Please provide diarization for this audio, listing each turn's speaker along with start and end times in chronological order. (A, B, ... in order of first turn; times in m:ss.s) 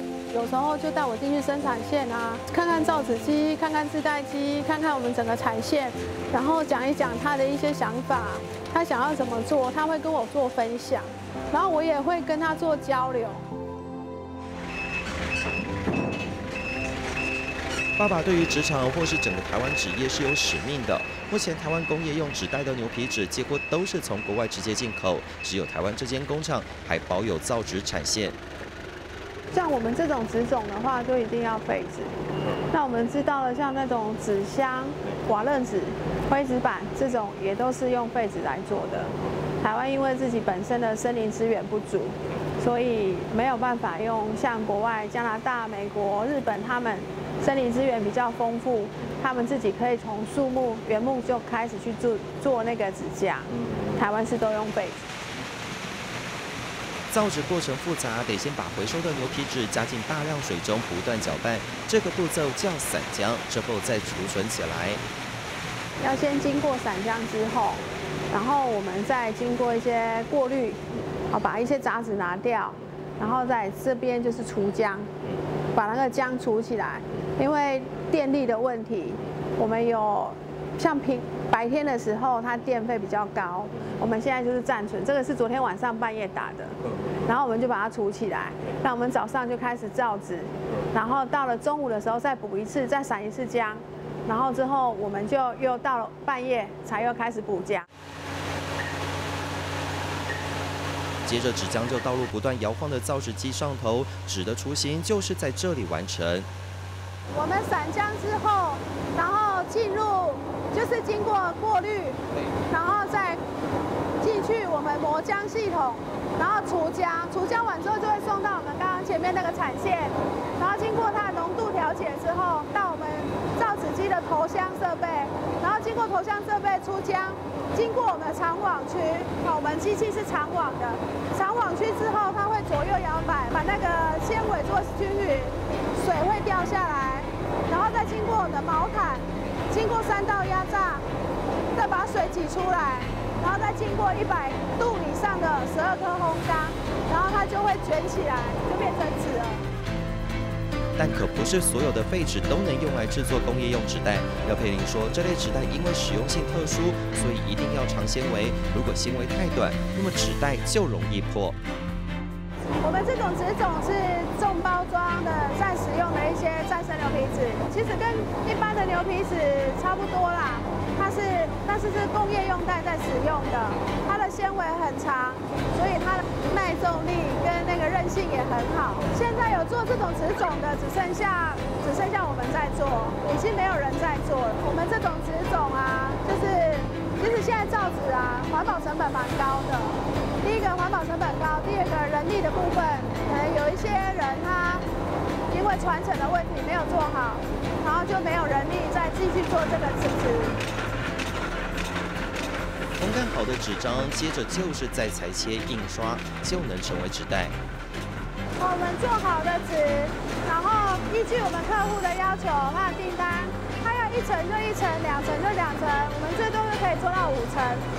0:00.3-0:13.4 A
0:18.0-0:28.4 B
0:29.5-0:32.1 A
0:32.7-0:55.0 A
0:57.1-1:05.0 B
1:06.0-1:10.8 A
1:11.3-1:15.1 A
1:15.7-1:37.8 A
1:41.2-1:46.5 B
1:47.3-1:52.2 A
1:52.7-1:53.4 A
1:54.2-2:21.0 A
2:21.7-2:29.6 A
2:31.0-2:41.6 B
2:42.8-3:14.8 A
3:15.5-3:20.6 A
3:23.0-3:27.5 B
3:28.6-3:37.8 A